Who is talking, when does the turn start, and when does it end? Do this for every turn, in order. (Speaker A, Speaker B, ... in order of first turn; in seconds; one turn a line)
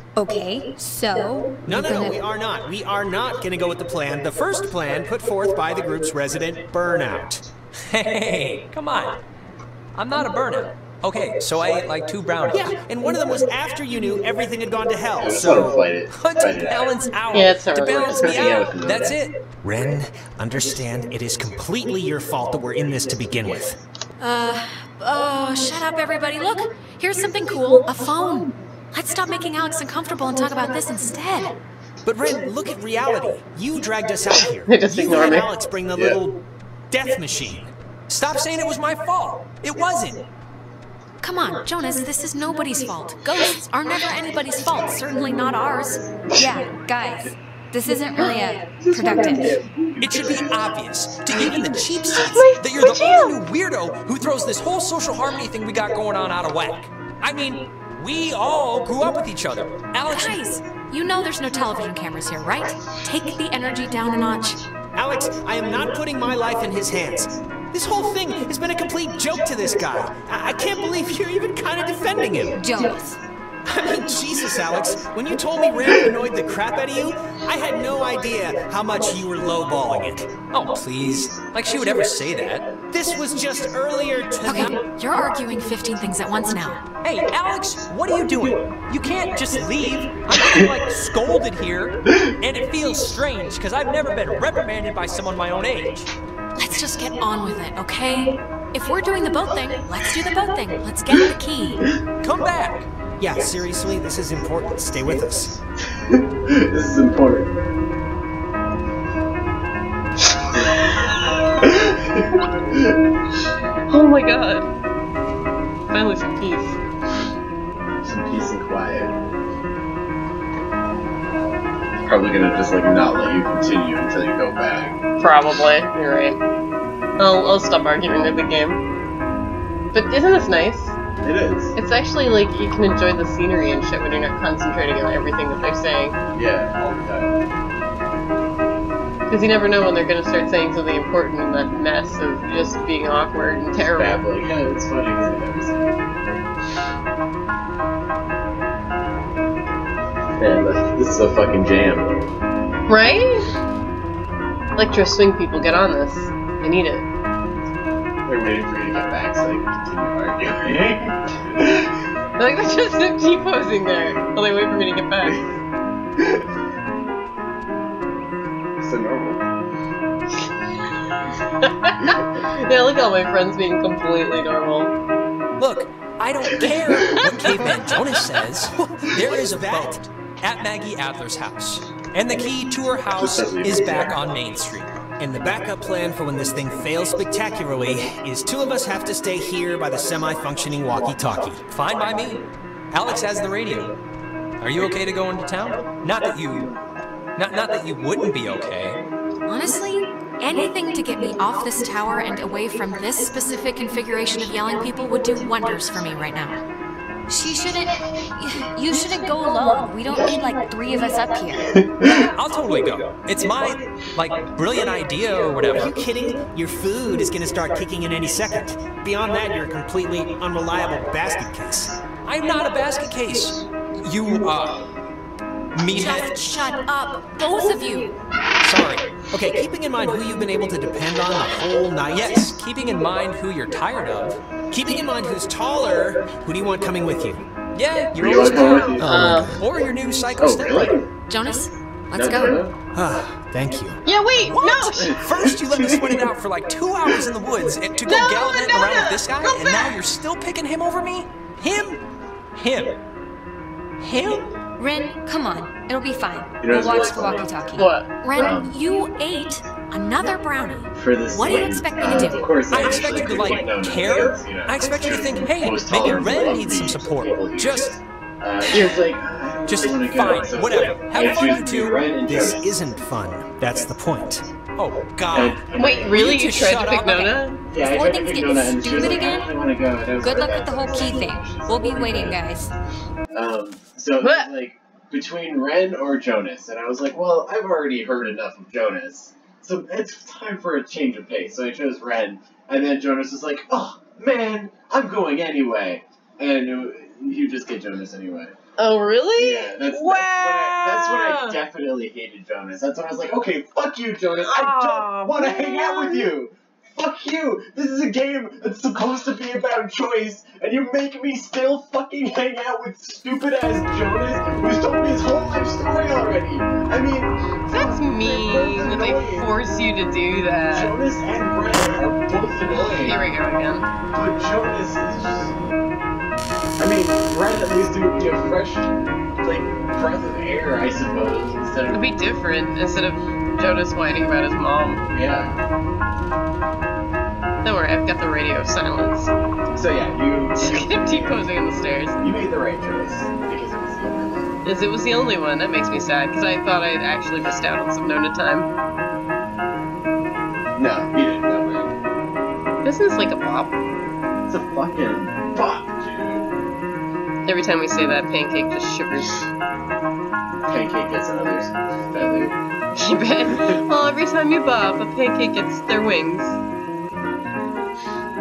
Speaker A: 0.2-2.2
Speaker B: 1.6-7.4
Speaker C: 7.9-9.2
Speaker C: 9.9-12.8
Speaker B: 12.5-15.8
Speaker D: 15.2-16.9
Speaker C: 16.1-19.3
Speaker E: 17.3-18.5
Speaker D: 18.1-19.2
Speaker B: 19.6-23.8
Speaker F: 24.2-31.6
Speaker B: 32.0-37.7
Speaker E: 34.7-35.5
Speaker C: 38.1-40.2
Speaker F: 41.2-46.0
Speaker D: 46.0-46.5
Speaker A: 46.4-49.6
Speaker D: 48.8-50.4
Speaker C: 50.0-60.4
Speaker E: 52.1-53.3
Speaker F: 60.1-64.6
Speaker B: 64.9-72.6
Speaker A: 72.5-73.2
Speaker B: 73.7-80.3
Speaker C: 80.5-82.7
Speaker B: 82.9-84.8
Speaker F: 84.4-86.8
Speaker C: 87.0-96.1
Speaker F: 96.5-101.8
Speaker C: 102.2-102.9
Speaker B: 103.2-105.6
Speaker D: 106.1-107.5
Speaker D: 111.6-112.3
Speaker E: 113.9-114.7
Speaker E: 115.9-116.8
Speaker D: 118.0-119.1
Speaker D: 122.0-125.0
Speaker E: 125.2-126.4
Speaker E: 127.2-128.8
Speaker E: 129.9-130.9
Speaker D: 131.2-131.7
Speaker E: 131.7-136.2
Speaker D: 136.3-137.3
Speaker E: 139.3-144.2
Speaker D: 143.9-146.2
Speaker D: 150.4-152.1
Speaker E: 152.9-153.5
Speaker E: 154.8-157.1
Speaker D: 158.2-161.9
Speaker E: 162.4-165.4
Speaker D: 168.8-169.4
Speaker E: 171.6-174.9
Speaker C: 175.6-184.9
Speaker B: 179.4-180.0
Speaker D: 183.1-184.2
Speaker B: 185.2-191.7
Speaker C: 191.7-193.9
Speaker C: 194.6-196.7
Speaker C: 197.4-199.0
Speaker F: 199.5-206.6
Speaker A: 207.3-211.6
Speaker D: 211.7-212.1
Speaker C: 212.0-215.9
Speaker B: 215.7-222.0
Speaker C: 222.2-224.8
Speaker C: 225.7-226.4
Speaker F: 225.9-228.1
Speaker C: 228.6-229.0
Speaker B: 228.9-232.6
Speaker C: 232.1-234.4
Speaker B: 234.7-237.4
Speaker C: 237.7-241.0
Speaker D: 238.1-239.2
Speaker E: 238.6-239.5
Speaker B: 239.0-239.6
Speaker D: 240.4-241.1
Speaker F: 241.3-242.6
Speaker D: 242.1-242.7
Speaker B: 242.9-244.0
Speaker E: 244.1-244.9
Speaker C: 244.4-252.0
Speaker D: 245.0-246.3
Speaker E: 248.1-249.9
Speaker C: 252.6-252.9
Speaker A: 254.2-257.9
Speaker D: 256.6-257.5
Speaker E: 257.8-258.1
Speaker F: 258.2-262.6
Speaker D: 258.3-258.7
Speaker D: 260.9-272.6
Speaker C: 262.7-267.9
Speaker C: 269.7-272.0
Speaker B: 272.2-274.4
Speaker C: 274.8-275.6
Speaker D: 275.3-276.4
Speaker E: 275.8-277.6
Speaker C: 276.1-277.3
Speaker D: 277.7-282.4
Speaker A: 277.8-279.4
Speaker A: 280.2-282.7
Speaker D: 283.3-298.5
Speaker E: 284.2-284.5
Speaker E: 298.8-301.6
Speaker D: 299.4-319.5
Speaker E: 304.4-306.3
Speaker E: 317.7-320.9
Speaker D: 320.7-323.2
Speaker E: 322.8-323.9
Speaker D: 324.1-325.5
Speaker D: 326.8-332.1
Speaker E: 331.9-335.0
Speaker D: 335.1-335.6
Speaker E: 337.6-339.3
Speaker D: 339.7-341.4
Speaker E: 340.6-342.1
Speaker D: 342.2-344.5
Speaker E: 344.6-348.7
Speaker D: 350.8-351.9
Speaker E: 352.8-353.7
Speaker D: 354.5-356.5
Speaker E: 357.4-359.4
Speaker D: 360.7-362.6
Speaker E: 362.9-366.6